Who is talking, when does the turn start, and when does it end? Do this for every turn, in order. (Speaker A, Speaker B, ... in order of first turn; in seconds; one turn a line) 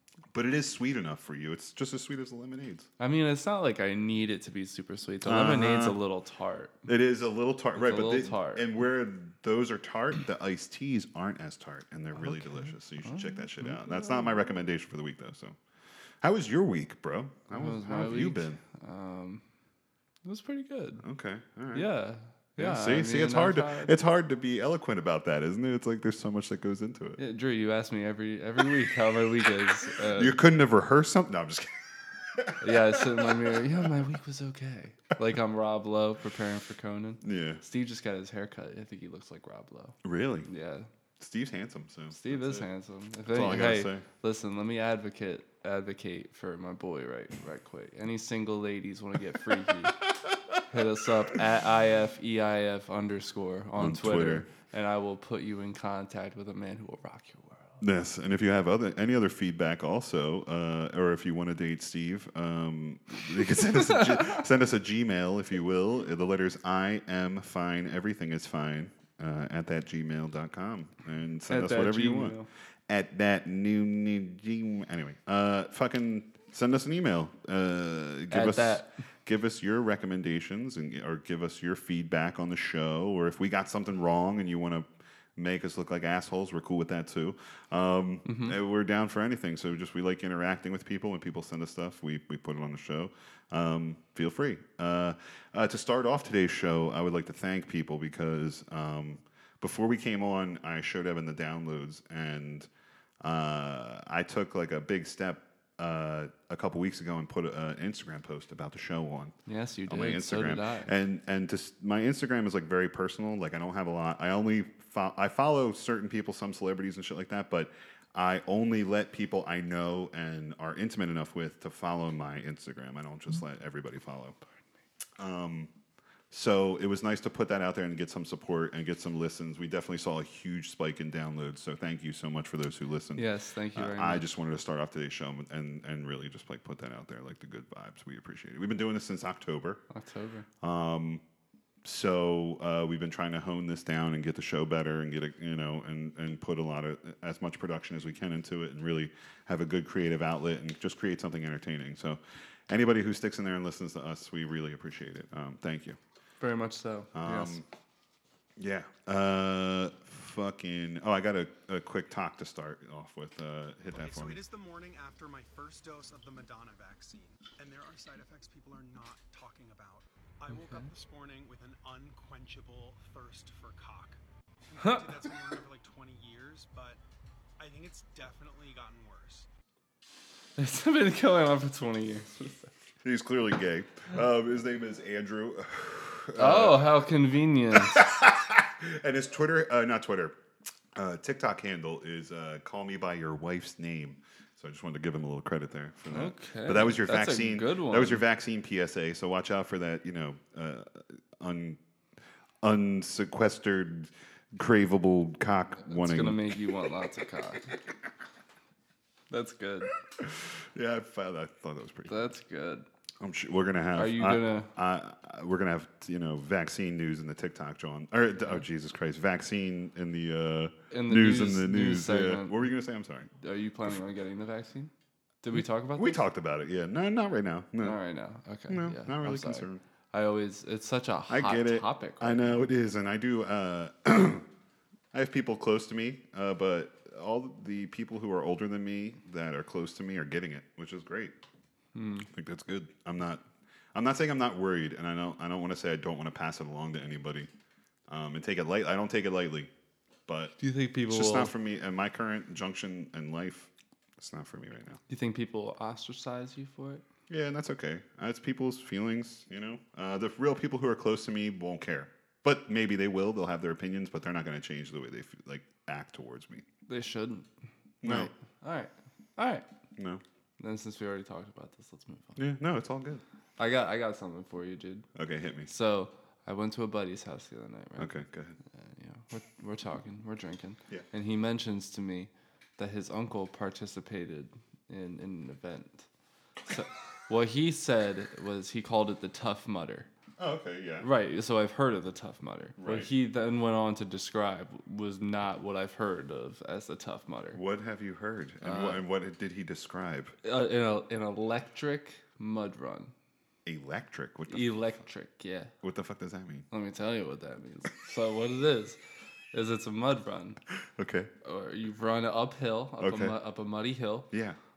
Speaker A: 0.3-2.9
Speaker B: 3.0-6.8
Speaker A: 5.2-6.0
Speaker A: 6.8-15.6
Speaker B: 7.8-8.7
Speaker B: 12.1-14.2
Speaker A: 16.2-18.6
Speaker B: 17.5-19.4
Speaker B: 20.2-21.0
Speaker A: 21.0-21.9
Speaker B: 21.7-23.9
Speaker A: 22.6-27.2
Speaker B: 27.2-30.4
Speaker A: 30.1-31.7
Speaker A: 32.3-33.9
Speaker B: 32.6-40.9
Speaker A: 37.2-37.6
Speaker A: 40.0-40.5
Speaker A: 41.2-42.7
Speaker B: 42.1-50.0
Speaker A: 43.2-44.0
Speaker A: 50.1-50.6
Speaker B: 50.7-57.8
Speaker A: 53.8-54.5
Speaker A: 57.8-102.7
Speaker B: 63.5-64.4
Speaker B: 71.5-72.5
Speaker B: 78.3-78.9
Speaker B: 88.2-88.5
Speaker A: 103.2-109.3
Speaker B: 109.5-110.9
Speaker A: 109.9-124.4
Speaker A: 125.2-125.7
Speaker A: 126.3-139.8
Speaker B: 133.2-134.2
Speaker B: 139.9-140.4
Speaker A: 140.6-141.2
Speaker A: 141.8-156.0
Speaker B: 156.4-157.6
Speaker A: 157.1-157.7
Speaker A: 158.6-164.4
Speaker C: 164.0-177.0
Speaker B: 170.5-170.9
Speaker B: 174.8-175.1
Speaker C: 177.6-179.5
Speaker B: 180.6-182.7
Speaker A: 183.0-187.0
Speaker B: 186.4-188.0
Speaker A: 187.7-190.3
Speaker A: 190.9-201.8
Speaker B: 196.1-198.2
Speaker A: 202.6-206.8
Speaker B: 205.8-207.8
Speaker B: 209.3-209.9
Speaker A: 210.2-212.3
Speaker B: 212.1-212.8
Speaker A: 213.2-223.3
Speaker B: 213.9-214.7
Speaker B: 220.9-222.7
Speaker B: 223.4-224.9
Speaker B: 225.4-226.2
Speaker A: 225.5-228.0
Speaker B: 227.8-232.6
Speaker A: 228.7-229.8
Speaker A: 231.3-234.4
Speaker A: 235.1-241.3
Speaker B: 241.9-242.3
Speaker A: 242.3-247.5
Speaker A: 248.1-249.7
Speaker A: 250.3-250.5
Speaker B: 250.6-251.5
Speaker A: 251.1-255.0
Speaker B: 255.1-257.0
Speaker A: 257.3-266.6
Speaker B: 266.9-267.5
Speaker A: 268.0-268.3
Speaker B: 268.0-269.6
Speaker A: 270.0-270.2
Speaker B: 270.6-272.4
Speaker A: 272.4-273.2
Speaker B: 273.6-275.1
Speaker A: 275.1-275.7
Speaker B: 275.7-278.1
Speaker A: 278.0-278.6
Speaker B: 278.7-286.1
Speaker B: 286.7-290.1
Speaker A: 290.4-291.1
Speaker B: 291.0-297.6
Speaker A: 292.8-293.1
Speaker A: 297.5-300.3
Speaker B: 298.6-299.0
Speaker B: 300.4-303.1
Speaker A: 303.6-305.0
Speaker B: 304.5-305.7
Speaker A: 305.8-306.7
Speaker B: 306.7-309.0
Speaker B: 309.5-310.6
Speaker A: 311.0-311.3
Speaker B: 311.4-314.3
Speaker A: 313.0-313.3
Speaker A: 314.3-314.6